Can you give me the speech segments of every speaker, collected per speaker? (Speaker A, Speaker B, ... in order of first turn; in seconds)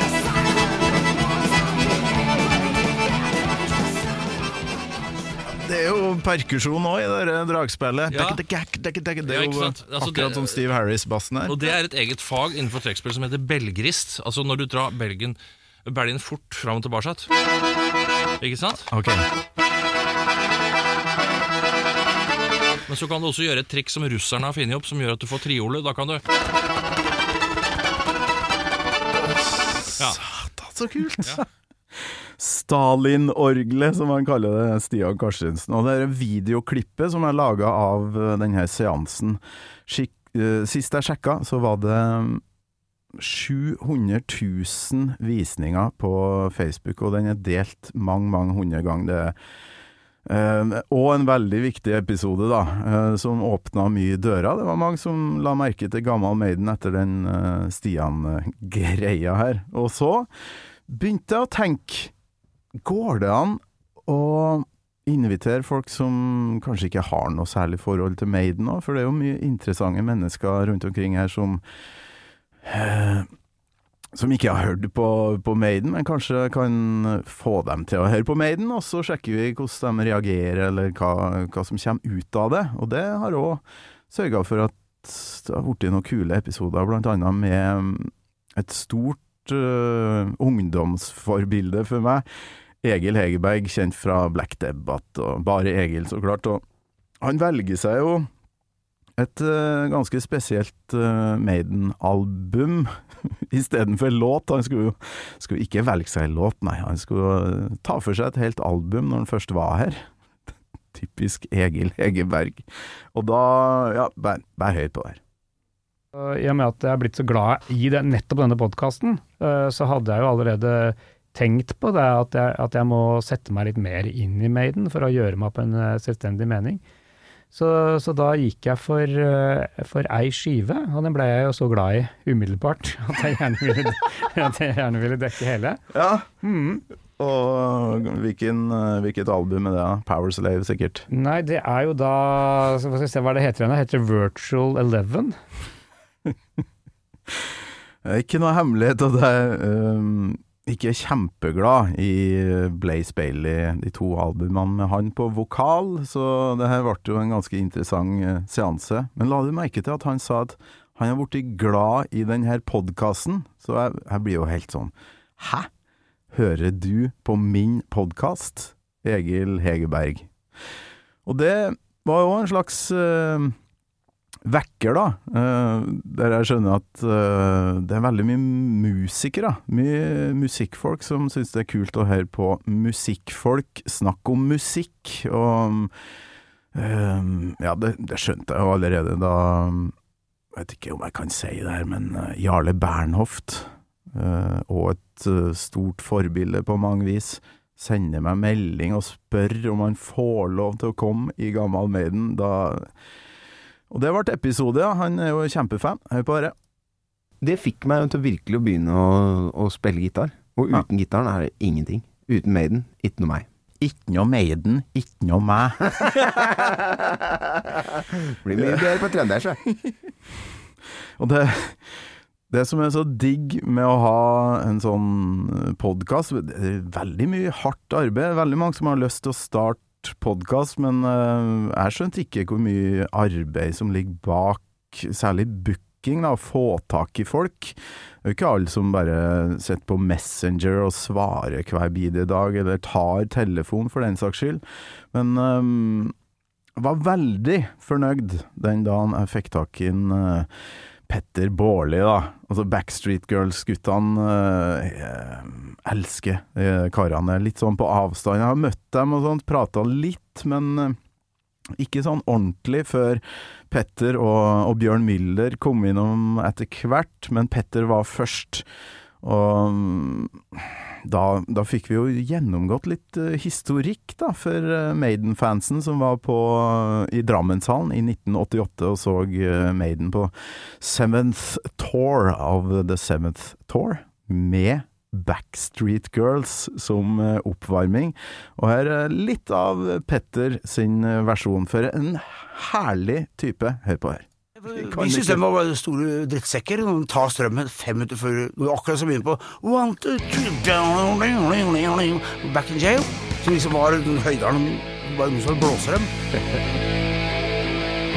Speaker A: 5.5-11.7, 18.9-19.2, 29.2-31.4, 32.4-42.4, 43.1-49.4, 50.2-60.3, 60.9-62.1, 62.8-71.6, 72.6-73.3, 74.1-92.2, 92.8-96.6, 97.2-98.3, 99.2-110.1, 110.9-115.2, 135.9-136.3, 137.2-141.1, 148.0-165.7, 166.3-170.3, 171.2-173.6, 174.4-185.9, 186.7-189.9, 190.5-202.9, 203.9-206.5, 213.8-216.6, 221.2-221.9, 222.5-246.1, 246.8-250.5, 251.1-261.0, 261.8-268.6, 269.2-295.4
Speaker B: 8.1-8.4, 9.2-10.6, 11.4-17.3, 18.4-18.9, 22.9-26.2
Speaker C: 116.1-126.8, 127.5-135.8, 136.4-136.8, 141.1-145.3
Speaker D: 207.4-213.4, 218.4-219.6
Speaker E: 294.6-306.1